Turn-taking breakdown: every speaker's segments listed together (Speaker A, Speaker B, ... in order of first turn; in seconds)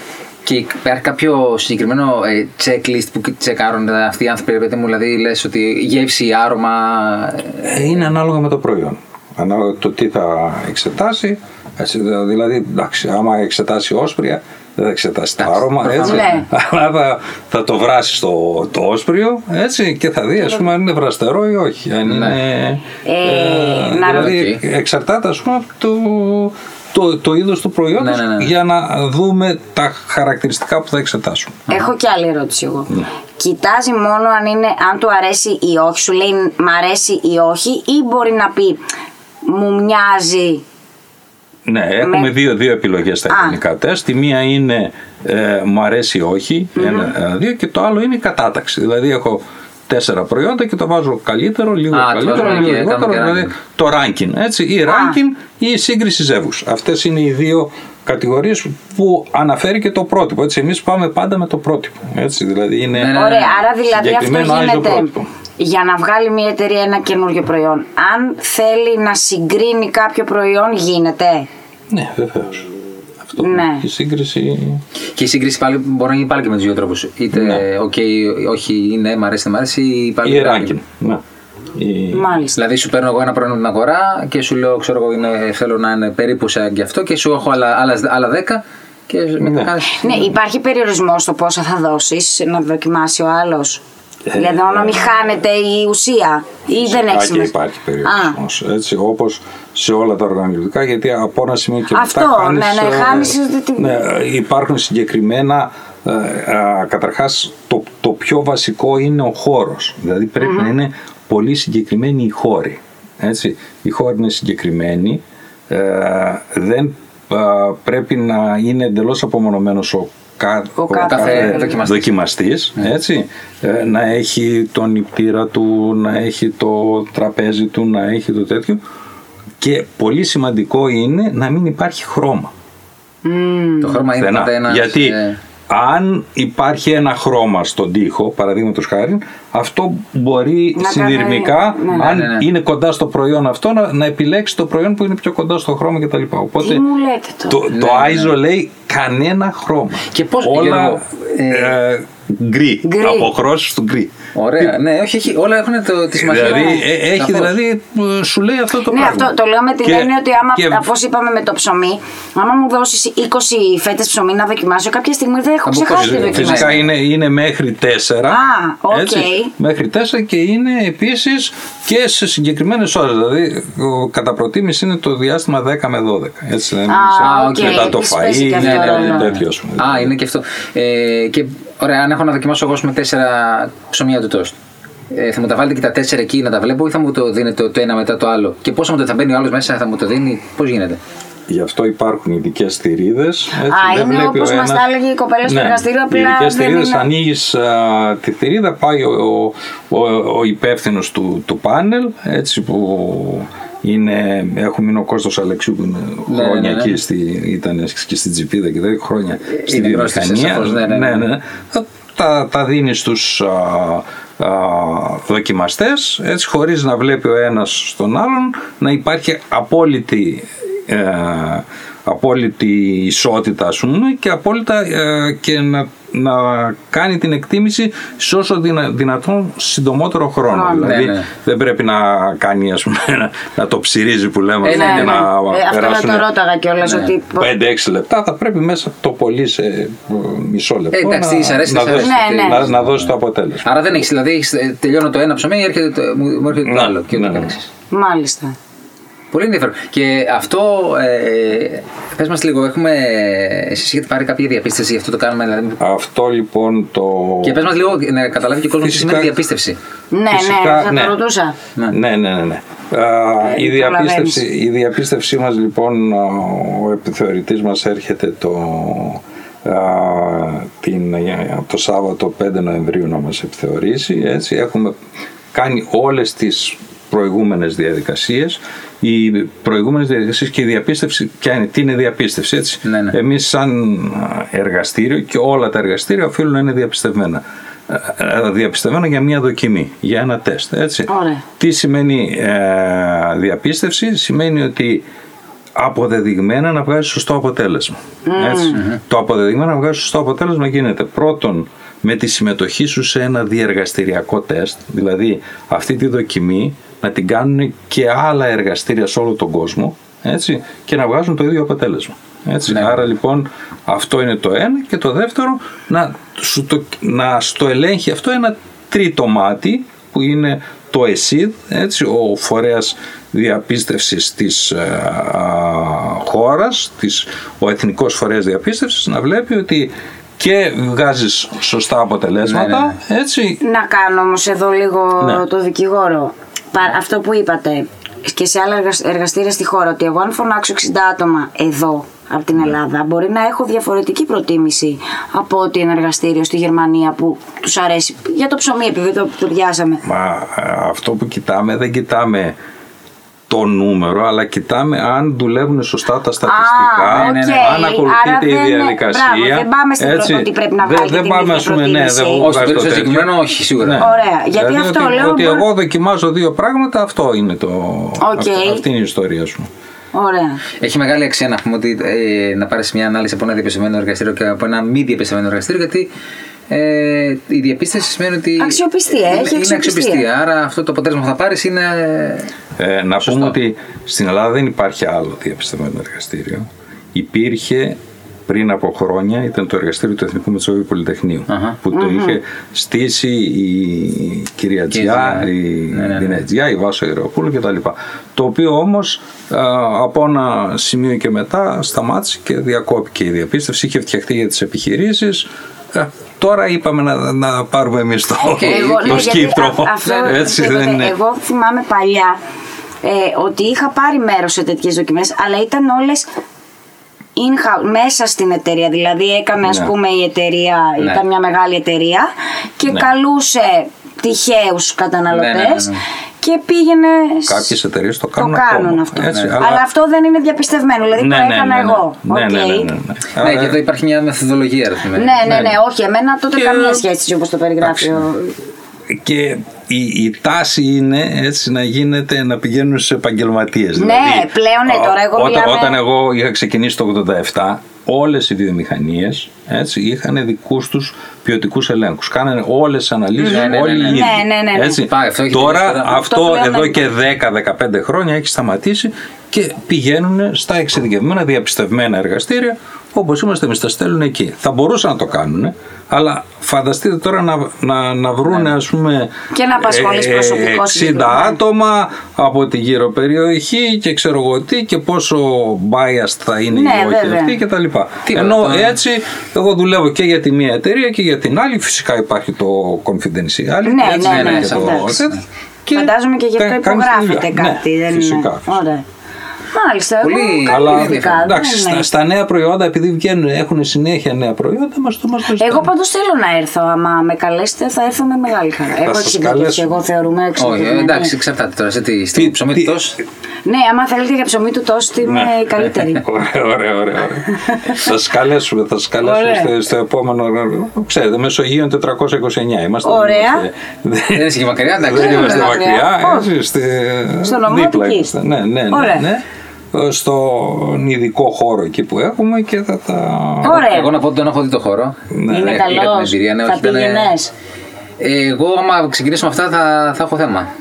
Speaker A: 0.4-8.0, 15.4-16.4, 22.1-22.4, 24.1-24.6, 28.0-28.5, 51.9-53.5, 62.9-63.6, 75.1-80.7, 82.5-90.3, 121.0-122.1, 133.8-135.4, 141.9-142.5, 147.7-148.3, 150.1-151.8, 154.3-157.5, 165.6-166.8, 177.2-178.0, 178.6-184.6, 185.1-191.0, 206.3-207.0, 209.6-211.3, 230.8-231.3, 234.6-235.3, 236.8-237.1, 240.9-243.1, 243.6-247.7, 249.3-255.8, 257.4-259.8, 282.8-283.2, 312.7-313.1, 332.4-332.9, 357.1-357.8, 362.4-364.1, 370.8-376.1, 376.7-382.5, 383.2-383.6, 391.5-391.8, 394.9-396.4, 408.4-409.3, 410.0-410.4, 425.3-426.0, 429.3-429.6, 433.3-435.5, 453.4-454.3, 455.0-456.3, 478.2-479.0, 484.1-485.4, 490.2-491.6, 500.6-503.2, 514.3-515.9, 523.6-527.4, 528.2-530.7
Speaker B: 7.6-31.6, 41.6-63.3, 63.9-65.3, 71.9-72.7, 73.2-74.8, 77.3-77.6, 80.2-81.2, 81.7-82.4, 89.4-89.8, 94.3-95.1, 96.7-128.8, 129.6-132.5, 134.2-135.2, 135.7-146.8, 147.5-154.7, 156.2-160.8, 165.9-180.1, 191.5-194.8, 195.4-236.3, 237.4-244.0, 246.6-247.5, 255.8-257.6, 258.8-259.3, 260.3-261.1, 261.9-274.9, 275.5-295.0, 295.8-333.6, 335.2-335.4, 350.0-352.5, 353.5-369.7, 382.8-411.1, 419.6-419.9, 427.5-429.9, 431.1-433.8, 435.4-435.8, 436.5-437.0, 437.8-438.2, 439.1-488.8, 490.6-495.9, 499.0-499.9, 502.3-502.9, 505.2-523.8, 525.3-525.8
Speaker C: 16.0-16.5, 23.0-24.4, 31.7-38.8, 39.4-40.6, 42.0-42.3, 43.3-43.6, 46.8-47.1, 54.9-55.2, 63.1-71.5, 73.4-73.8, 82.1-82.6, 89.9-93.8, 94.3-97.5, 98.0-98.4, 101.9-104.0, 110.4-110.7, 120.8-121.8, 133.2-134.0, 140.8-142.1, 146.6-147.7, 152.8-153.3, 156.4-156.7, 158.8-166.8, 168.3-169.5, 176.9-179.3, 193.6-197.1, 230.5-230.9, 234.6-237.5, 241.9-242.6, 247.9-248.5, 260.1-261.5, 263.4-264.4, 291.1-291.4, 298.2-298.8, 333.6-350.0, 356.4-362.5, 364.0-365.7, 368.2-368.8, 370.1-370.6, 378.6-380.3, 391.9-392.4, 408.6-412.4, 413.0-416.3, 417.4-427.7, 428.4-432.9, 435.1-438.6, 443.9-446.0, 453.5-455.0, 456.3-457.0, 469.5-471.6, 476.7-477.6, 483.8-485.1, 485.9-489.0, 489.7-492.1, 495.5-501.3, 503.6-506.2, 507.7-508.0, 509.2-509.7, 513.0-513.6, 515.1-516.5, 517.4-518.3, 518.9-519.2, 523.6-524.1, 525.5-527.5